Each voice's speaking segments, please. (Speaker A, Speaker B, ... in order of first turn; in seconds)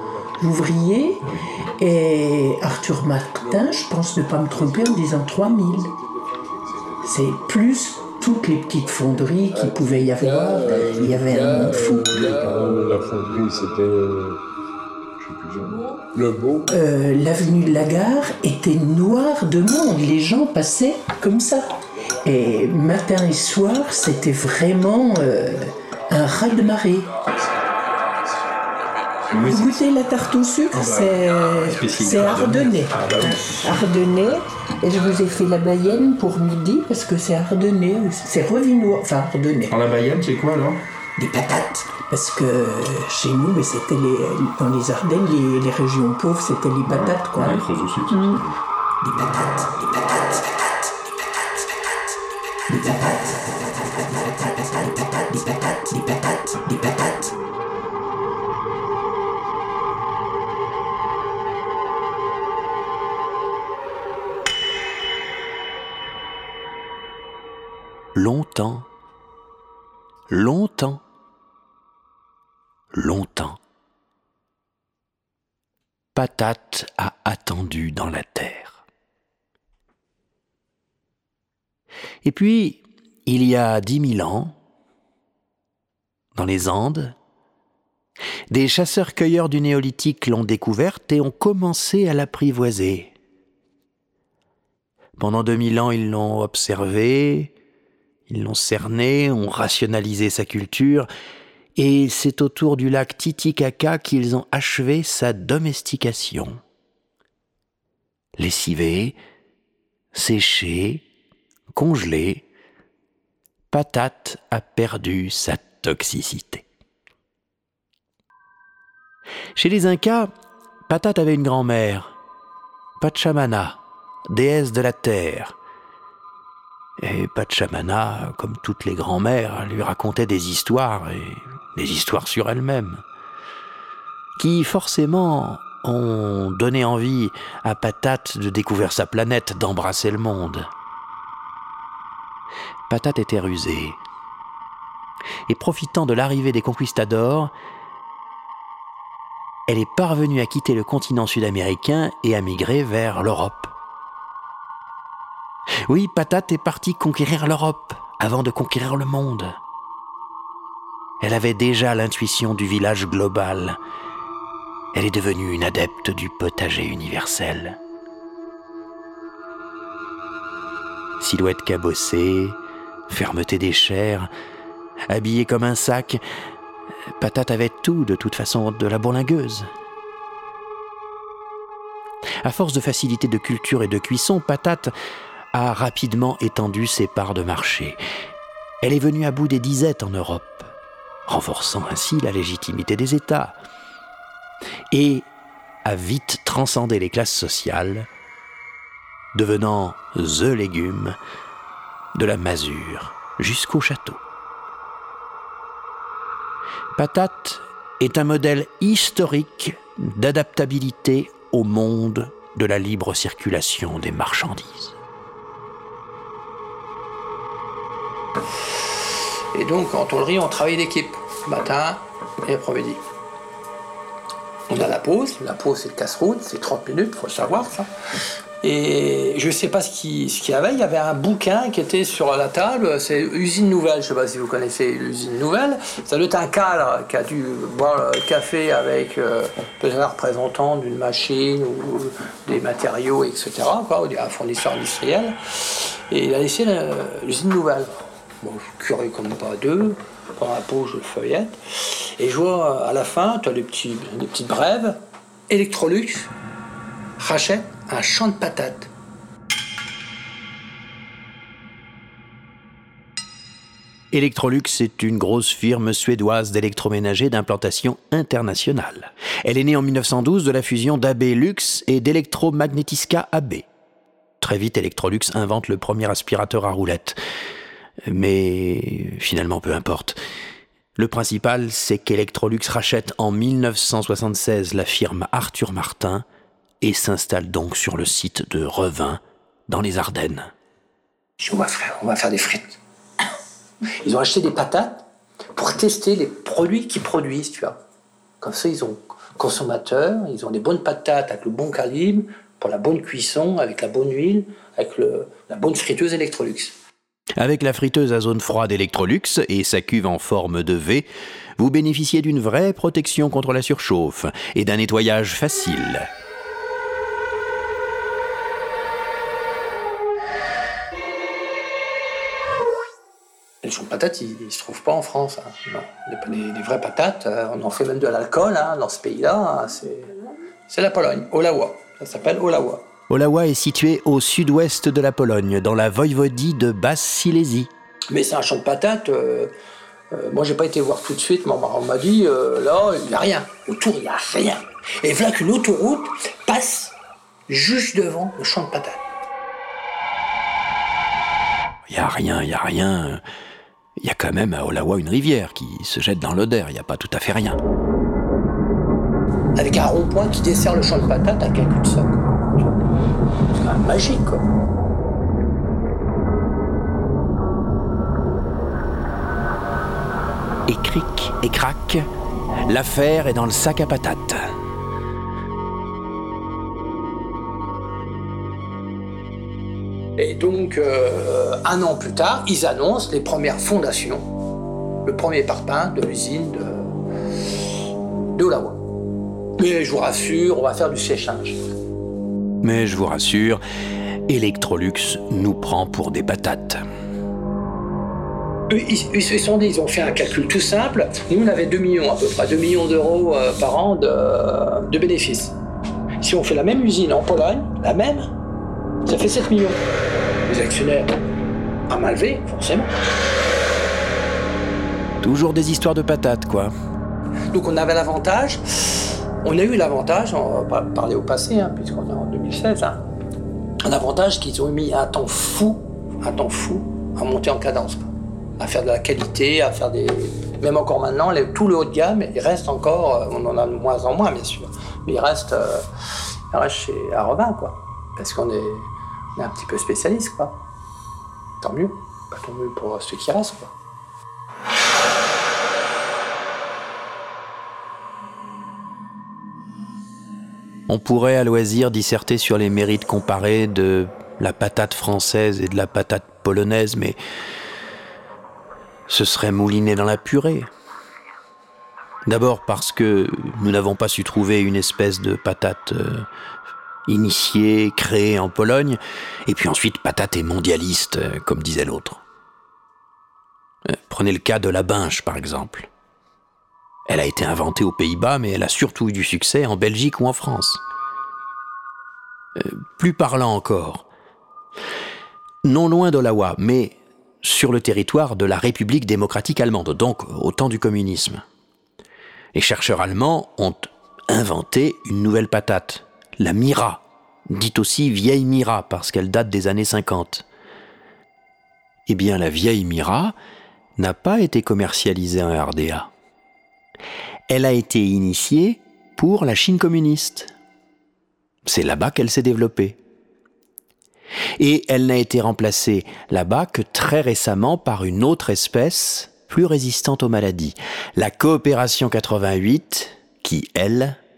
Speaker A: 0.4-1.2, 1.8-5.9, 7.0-12.2, 16.7-21.7, 22.2-27.1, 29.4-39.8, 41.2-48.4, 49.0-49.8, 52.7-57.2
Speaker B: 4.5-5.7, 6.6-7.1, 9.5-14.4, 15.2-16.7, 27.3-29.9
Speaker C: 12.2-12.7, 29.3-29.6, 30.8-33.4, 39.8-40.8, 47.4-48.1
Speaker D: 32.0-32.5, 68.1-68.9, 70.3-71.0, 72.9-73.6, 76.1-78.8, 82.2-84.5, 86.3-87.1, 88.5-93.1, 95.2-97.5, 98.3-101.1, 101.8-106.6, 108.4-109.2, 110.1-111.0, 111.7-112.5, 113.7-116.7, 119.5-120.3, 120.9-122.1, 123.0-125.5, 127.0-133.0, 134.4-140.7, 142.9-144.0, 145.5-147.5, 149.7-153.7, 155.8-159.6, 161.2-163.8, 164.9-167.8, 171.2-174.3, 175.1-176.2, 177.2-179.7, 182.4-184.9, 185.5-188.0, 188.8-190.7, 191.3-193.6, 194.9-195.3, 195.8-198.1, 199.3-201.2, 202.1-204.2, 206.9-214.9, 264.1-273.6, 274.4-277.2, 278.1-280.2, 281.0-286.2, 286.8-290.5, 307.4-316.1, 333.1-337.7, 351.9-353.2, 354.0-357.6, 370.7-372.0, 372.7-374.5, 392.6-393.6, 394.3-396.8, 415.2-416.7, 450.9-457.2, 459.1-460.7, 462.2-466.3, 467.1-472.2, 473.9-475.9, 477.1-480.8, 482.6-484.1, 485.6-491.4, 492.5-500.4, 502.1-503.3, 504.0-506.1, 507.5-510.5, 511.6-513.0, 514.6-524.2
Speaker E: 219.5-223.0, 224.7-227.9, 228.6-247.9, 248.4-255.0, 255.5-256.3, 257.2-258.9, 291.4-292.8, 294.0-295.0, 295.5-297.8, 298.4-306.7, 323.6-330.1, 330.7-332.8, 338.1-339.5, 340.1-346.9, 347.5-349.0, 359.6-362.7, 363.5-364.4, 380.2-384.2, 385.0-386.9, 388.3-388.8, 389.6-391.6, 398.7-405.6, 406.2-408.3, 409.0-409.8, 410.4-411.1, 411.9-412.9, 417.5-423.0, 423.8-435.8, 436.5-440.6, 441.6-443.7